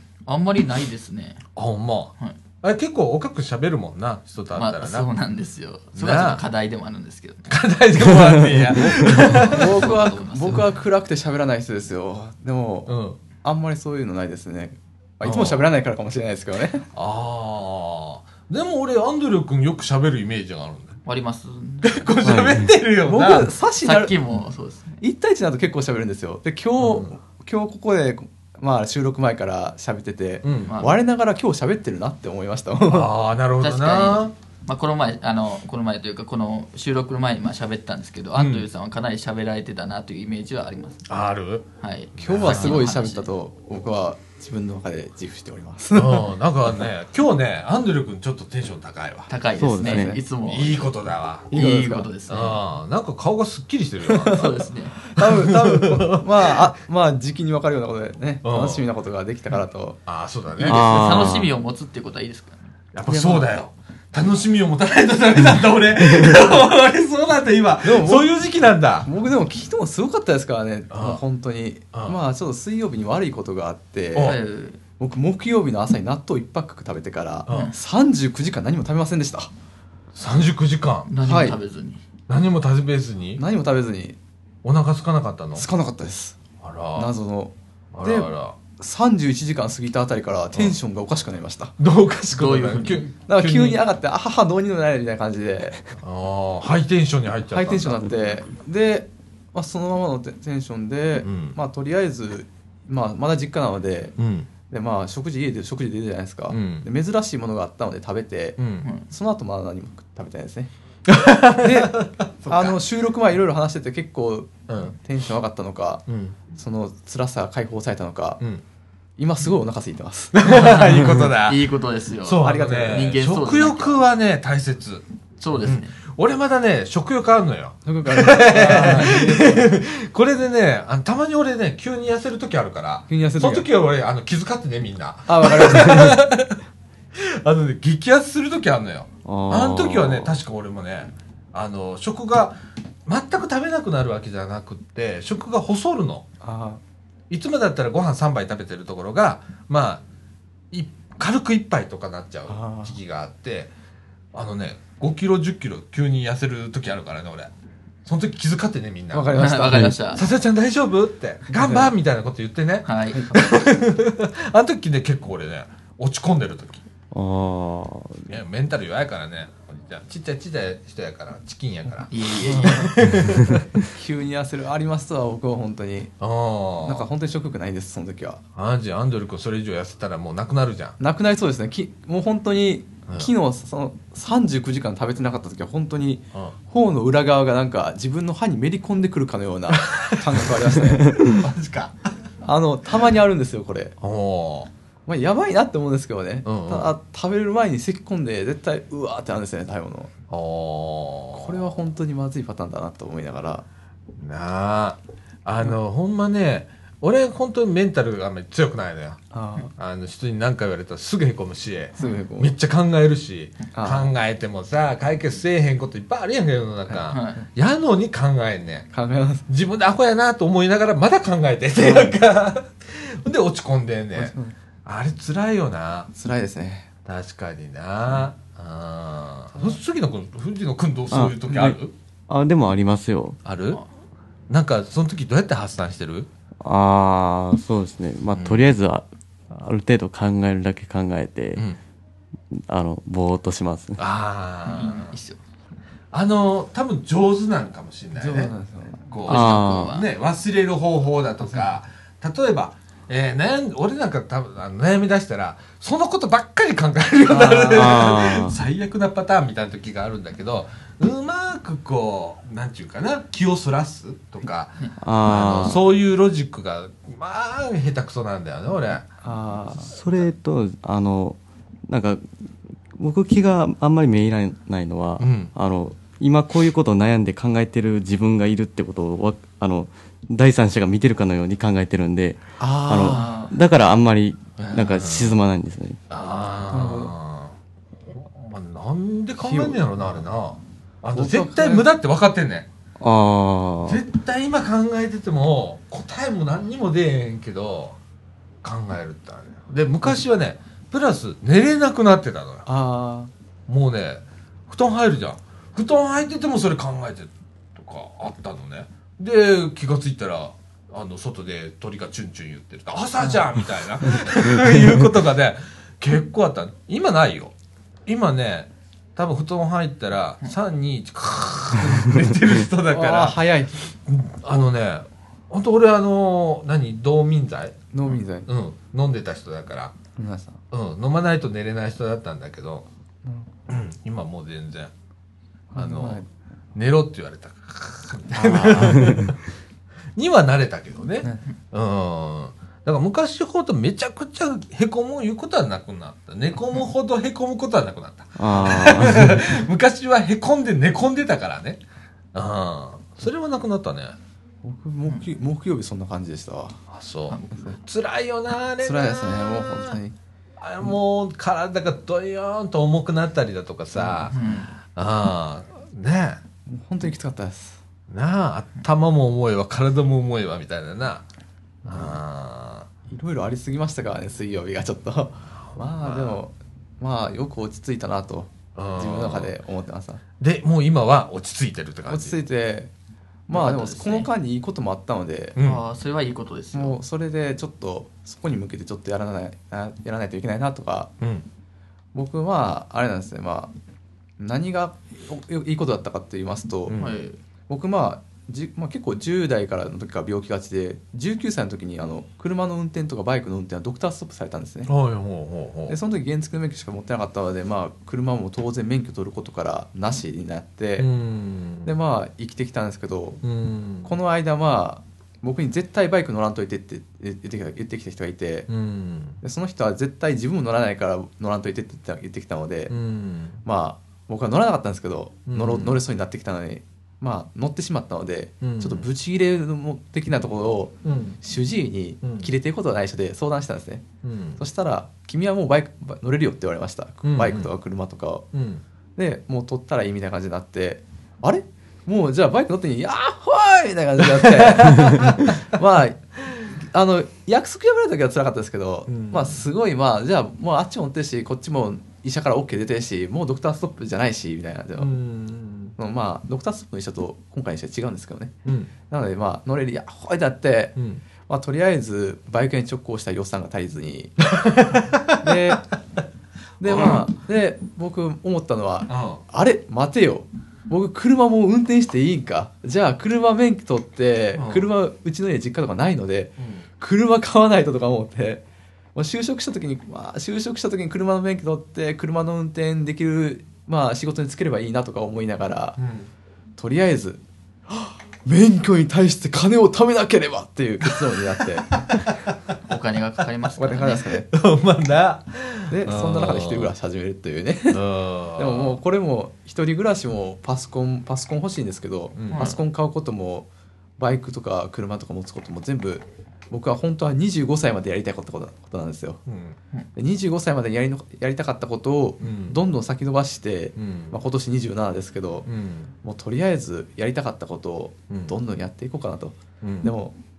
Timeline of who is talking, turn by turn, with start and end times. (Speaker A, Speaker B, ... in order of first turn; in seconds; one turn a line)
Speaker A: 0.3-1.4
Speaker B: 1.6-5.1
Speaker A: 4.5-7.5
Speaker B: 6.0-6.4
Speaker B: 7.5-9.9
Speaker C: 8.2-8.7
Speaker A: 9.2-10.8
Speaker D: 9.4-16.9
Speaker B: 12.9-13.2
Speaker B: 15.2-15.6
Speaker B: 16.9-21.0
Speaker A: 21.1-22.1
Speaker B: 21.8-23.5
Speaker C: 22.2-22.7
Speaker D: 23.0-24.2
Speaker A: 23.8-25.0
Speaker D: 25.0-33.1
Speaker B: 26.8-27.1
Speaker B: 30.4-30.8
Speaker A: 30.7-31.0
Speaker B: 32.9-34.3
Speaker A: 33.6-41.0
Speaker B: 38.4-38.7
Speaker B: 41.1-41.7
Speaker A: 41.8-43.3
Speaker B: 42.2-42.8
Speaker D: 42.2-46.3
Speaker B: 45.9-49.3
Speaker A: 49.3-51.0
Speaker C: 49.6-50.2
Speaker D: 49.8-50.2
Speaker B: 50.4-51.6
Speaker A: 51.5-52.6
Speaker D: 51.5-52.1
Speaker B: 52.3-54.6
Speaker D: 54.2-54.5
Speaker A: 54.3-55.0
Speaker D: 55.0-60.0
Speaker B: 55.2-56.7
Speaker B: 58.4-58.9
Speaker B: 60.1-61.0
Speaker A: 60.6-62.7
Speaker C: 60.6-61.5
Speaker B: 62.9-69.1
Speaker D: 63.1-63.4
Speaker D: 67.8-68.3
Speaker D: 69.0-74.4
Speaker B: 70.9-71.2
Speaker B: 74.1-74.4
Speaker A: 74.2-74.8
Speaker D: 75.0-79.5
Speaker B: 77.5-77.7
Speaker A: 77.5-77.8
Speaker B: 80.2-81.1
Speaker A: 81.1-82.0
Speaker D: 81.2-81.6
Speaker B: 82.3-83.4
Speaker D: 83.4-84.2
Speaker B: 84.6-85.7
Speaker D: 85.5-86.4
Speaker B: 86.6-87.1
Speaker D: 87.0-91.8
Speaker B: 87.9-88.6
Speaker B: 91.8-93.8
Speaker A: 92.3-93.1
Speaker D: 93.3-95.8
Speaker B: 96.0-98.1
Speaker D: 97.5-104.2
Speaker B: 101.2-101.6
Speaker B: 104.2-104.5
Speaker D: 104.7-110.7
Speaker B: 106.5-106.9
Speaker B: 108.6-108.9
Speaker B: 111.1-112.8
Speaker D: 111.6-118.4
Speaker B: 114.7-115.0
Speaker B: 116.1-116.4
Speaker D: 119.2-120.4
Speaker B: 120.3-121.7
Speaker A: 120.4-124.0
Speaker B: 122.2-136.6
Speaker D: 122.4-123.1
Speaker A: 125.4-126.0
Speaker D: 127.8-129.8
Speaker D: 133.1-133.7
Speaker D: 135.3-136.2
Speaker B: 137.2-146.2
Speaker C: 139.2-140.3
Speaker D: 146.4-146.8
Speaker B: 147.3-150.0
Speaker B: 150.7-153.7
Speaker D: 152.5-152.9
Speaker B: 154.3-157.5
Speaker B: 158.1-159.4
Speaker D: 159.1-160.0
Speaker A: 159.3-160.2
Speaker B: 160.1-166.8
Speaker D: 161.5-161.9
Speaker A: 162.9-163.5
Speaker C: 167.1-168.3
Speaker B: 168.3-173.8
Speaker A: 172.1-172.9
Speaker D: 172.4-172.9
Speaker D: 173.9-176.1
Speaker B: 176.2-177.1
Speaker D: 176.8-178.4
Speaker B: 178.6-181.0
Speaker D: 181.0-191.2
Speaker B: 189.7-192.0
Speaker D: 192.4-194.0
Speaker B: 194.0-194.7
Speaker D: 195.1-200.1
Speaker B: 196.4-196.9
Speaker B: 200.3-201.7
Speaker D: 201.3-203.7
Speaker B: 204.2-209.2
Speaker D: 209.3-209.7
Speaker B: 209.8-218.9
Speaker D: 212.0-212.5
Speaker D: 213.7-214.1
Speaker A: 217.1-217.4
Speaker D: 218.9-219.5
Speaker B: 219.5-226.1
Speaker D: 221.8-222.1
Speaker D: 224.2-224.6
Speaker D: 226.1-226.9
Speaker B: 227.1-231.9
Speaker C: 231.1-231.8
Speaker C: 232.3-233.4
Speaker B: 233.4-233.8
Speaker B: 234.5-236.3
Speaker C: 236.6-241.7
Speaker B: 238.3-238.7
Speaker C: 242.5-244.0
Speaker B: 244.0-245.1
Speaker A: 244.7-245.4
Speaker B: 246.1-248.5
Speaker D: 248.2-249.1
Speaker B: 249.1-269.1
Speaker A: 249.2-250.1
Speaker C: 249.3-250.0
Speaker D: 257.3-258.0
Speaker C: 257.6-258.6
Speaker C: 265.0-265.8
Speaker D: 269.2-269.9
Speaker C: 269.9-272.3
Speaker C: 272.9-286.0
Speaker B: 275.2-275.5
Speaker D: 282.6-283.5
Speaker A: 283.0-283.5
Speaker B: 284.6-285.4
Speaker B: 286.1-287.6
Speaker D: 286.7-287.1
Speaker B: 288.1-292.7
Speaker D: 289.4-289.8
Speaker D: 291.1-291.9
Speaker C: 293.0-294.0
Speaker B: 293.9-298.0
Speaker B: 298.6-302.6
Speaker D: 302.7-303.3
Speaker B: 303.7-317.5
Speaker B: 318.1-323.4
Speaker D: 322.9-323.8
Speaker B: 324.1-327.8
Speaker D: 327.9-328.5
Speaker B: 328.5-329.9
Speaker D: 330.2-330.6
Speaker B: 330.7-332.9
Speaker B: 333.7-334.9
Speaker D: 335.7-336.3
Speaker B: 335.8-336.2
Speaker B: 336.8-339.4
Speaker C: 338.4-339.4
Speaker B: 340.2-351.8
Speaker C: 348.4-349.5
Speaker B: 352.3-354.2
Speaker D: 354.6-356.8
Speaker B: 356.9-360.0
Speaker A: 357.3-357.6
Speaker D: 358.8-360.2
Speaker B: 360.6-364.4
Speaker D: 364.0-364.5
Speaker A: 364.3-364.7
Speaker B: 364.9-366.4
Speaker D: 366.7-367.8
Speaker B: 368.1-371.2
Speaker D: 371.9-372.2
Speaker B: 371.9-372.9
Speaker D: 373.1-380.2
Speaker B: 376.0-376.4
Speaker B: 378.8-379.5
Speaker B: 380.4-382.4
Speaker D: 382.1-382.9
Speaker D: 383.5-385.6
Speaker A: 383.5-384.3
Speaker B: 385.6-385.8
Speaker A: 385.6-387.0
Speaker D: 386.7-391.1
Speaker B: 391.2-391.4
Speaker D: 392.1-393.7
Speaker D: 394.4-397.0
Speaker B: 396.9-397.1
Speaker A: 397.0-397.4
Speaker D: 397.7-404.9
Speaker B: 404.9-406.0
Speaker D: 405.9-411.1
Speaker B: 411.0-411.9
Speaker D: 411.8-413.4
Speaker B: 413.4-414.1
Speaker D: 414.0-418.7
Speaker B: 418.7-419.4
Speaker D: 419.4-422.9
Speaker B: 422.9-423.6
Speaker D: 423.6-434.1
Speaker B: 425.5-426.0
Speaker B: 428.6-429.1
Speaker B: 431.0-431.4
Speaker B: 432.2-432.5
Speaker B: 434.2-434.6
Speaker D: 434.6-438.5
Speaker B: 437.2-437.7
Speaker B: 438.5-438.8
Speaker D: 439.2-455.1
Speaker B: 444.2-445.6
Speaker B: 449.1-449.6
Speaker B: 455.0-455.9
Speaker D: 456.0-458.5
Speaker B: 458.6-458.9
Speaker D: 459.1-465.9
Speaker B: 461.0-461.2
Speaker B: 464.6-465.8
Speaker D: 466.8-478.6
Speaker B: 466.9-467.2
Speaker B: 469.1-469.4
Speaker B: 474.5-474.9
Speaker B: 476.6-476.9
Speaker D: 479.1-486.0
Speaker B: 486.0-486.3
Speaker D: 486.8-492.0
Speaker B: 492.1-492.6
Speaker A: 492.9-494.4
Speaker D: 493.8-494.5
Speaker B: 494.5-496.9
Speaker D: 495.9-498.0
Speaker B: 497.9-499.0
Speaker D: 498.6-509.4
Speaker B: 502.4-502.7
Speaker A: 502.5-502.8
Speaker B: 509.5-509.8
Speaker D: 510.1-515.7
Speaker B: 512.4-512.8
Speaker B: 514.0-514.4
Speaker B: 515.7-516.1
Speaker D: 516.2-520.4
Speaker B: 519.8-520.1